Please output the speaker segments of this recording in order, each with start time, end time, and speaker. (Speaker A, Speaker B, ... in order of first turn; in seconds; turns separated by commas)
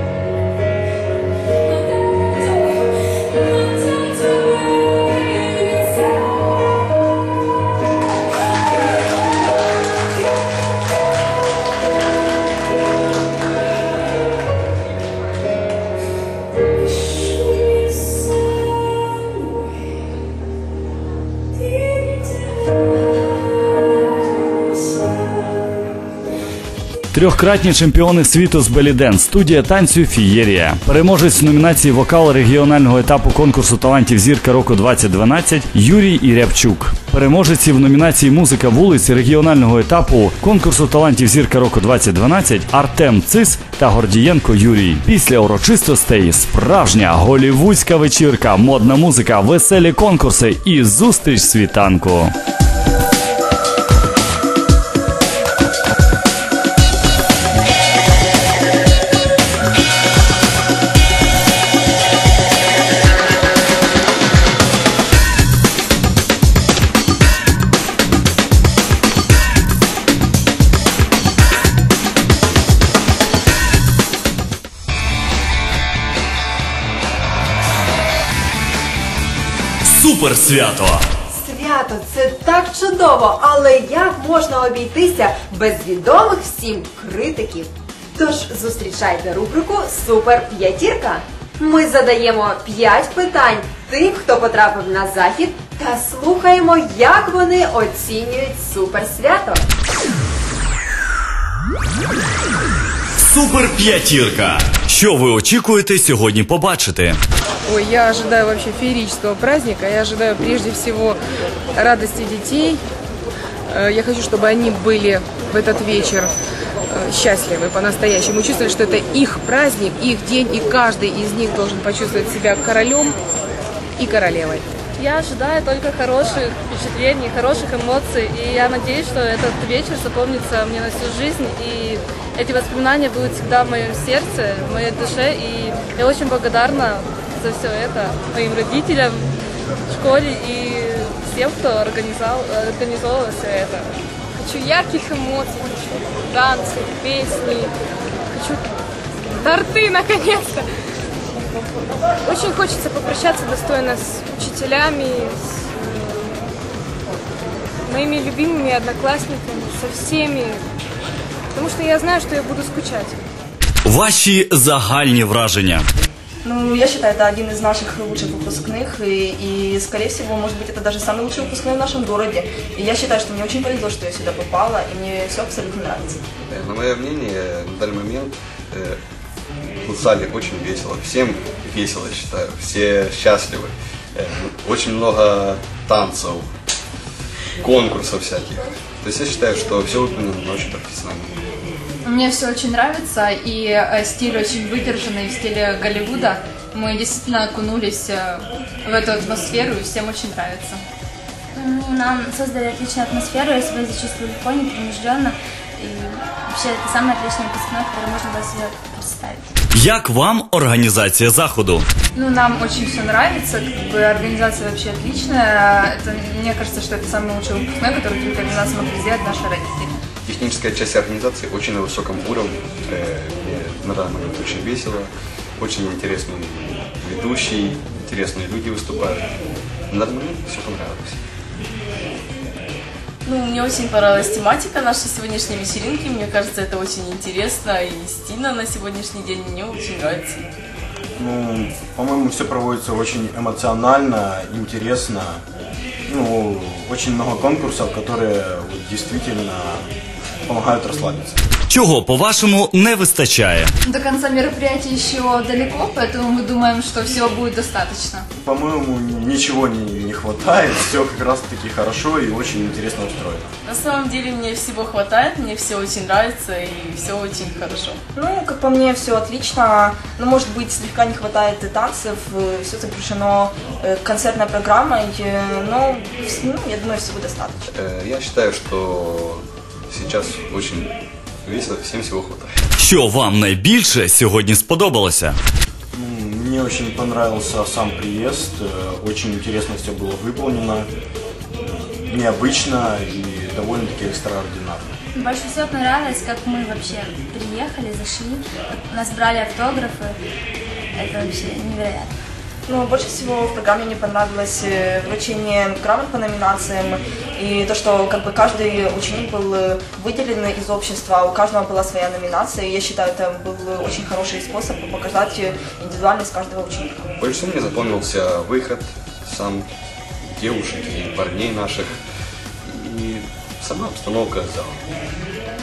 Speaker A: 27.1-52.3, Speaker A: 79.8-81.0, Speaker B: 81.3-99.7, Speaker A: 103.2-107.2, Speaker C: 107.7-111.2, Speaker C: 111.7-112.8, Speaker C: 113.7-116.3, Speaker C: 116.9-123.2, Speaker C: 124.0-124.7, Speaker D: 125.0-139.3, Speaker D: 139.9-143.9, Speaker E: 144.3-147.7, Speaker E: 148.3-148.7, Speaker E: 149.3-150.6, Speaker E: 152.2-156.3, Speaker E: 157.8-160.6, Speaker E: 161.5-163.2, Speaker A: 163.8-165.8, Speaker F: 166.4-176.2, Speaker G: 176.5-179.0, Speaker G: 179.8-186.5, Speaker G: 187.6-191.3, Speaker H: 192.0-200.8, Speaker I: 201.5-209.5, Speaker A: 209.7-211.8, Speaker H: 212.1-219.9, Speaker G: 220.2-229.2, Speaker G: 229.9-231.2, Speaker J: 233.2-240.5, Speaker K: 241.2-245.4, Speaker K: 246.1-249.9, Speaker K: 250.5-251.4, Speaker A: 251.7-253.7, Speaker H: 253.8-258.2, Speaker K: 258.4-263.5, Speaker J: 263.6-268.0, Speaker F: 268.1-277.7, Speaker G: 277.7-280.9, Speaker G: 281.4-282.6, Speaker A: 282.8-285.4, Speaker K: 285.9-290.9, Speaker K: 291.6-294.9, Speaker I: 295.1-300.2, Speaker I: 300.9-302.1, Speaker F: 302.6-317.0, Speaker G: 317.2-319.6, Speaker G: 320.3-322.0, Speaker G: 322.6-324.8